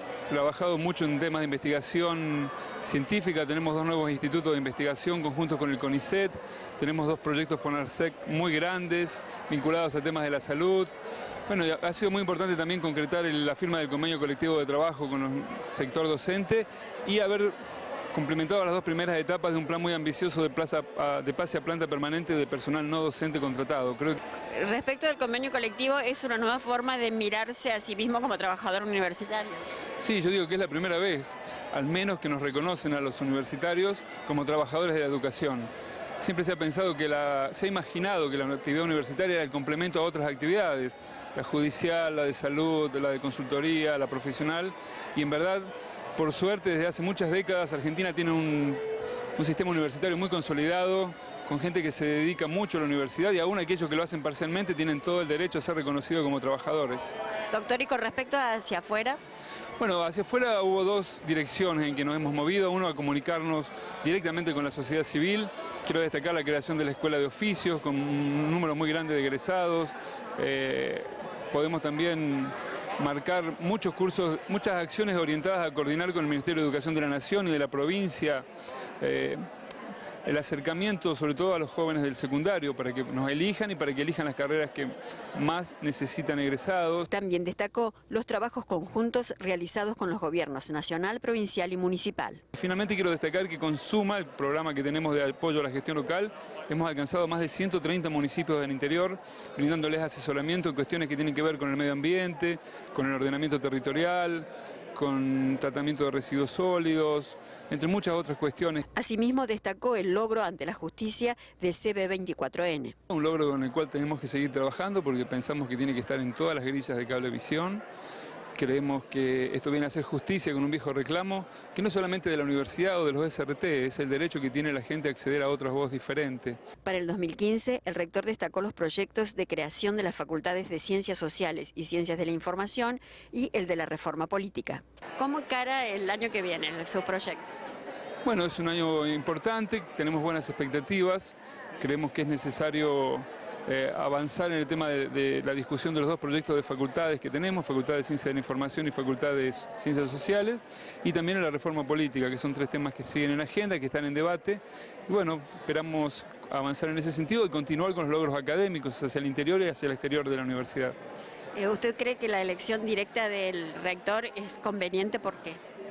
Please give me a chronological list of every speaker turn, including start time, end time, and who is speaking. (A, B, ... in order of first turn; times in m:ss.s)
0:00.3-0:10.9 A
0:11.5-0:17.5 A
0:18.1-0:24.2 A
0:24.5-0:29.6 B
0:30.0-0:35.7 A
0:36.2-0:48.8 A
0:49.4-0:57.2 A
0:57.5-0:59.2 B
0:59.8-1:18.4 A
1:19.0-1:19.4 A
1:20.2-1:27.1 A
1:27.1-1:32.4 B
1:32.5-1:48.8 A
1:48.9-1:52.9 B
1:53.1-1:57.8 A
1:58.5-2:06.6 A
2:06.8-2:17.4 B
2:18.2-2:41.0 A
2:41.5-2:45.6 B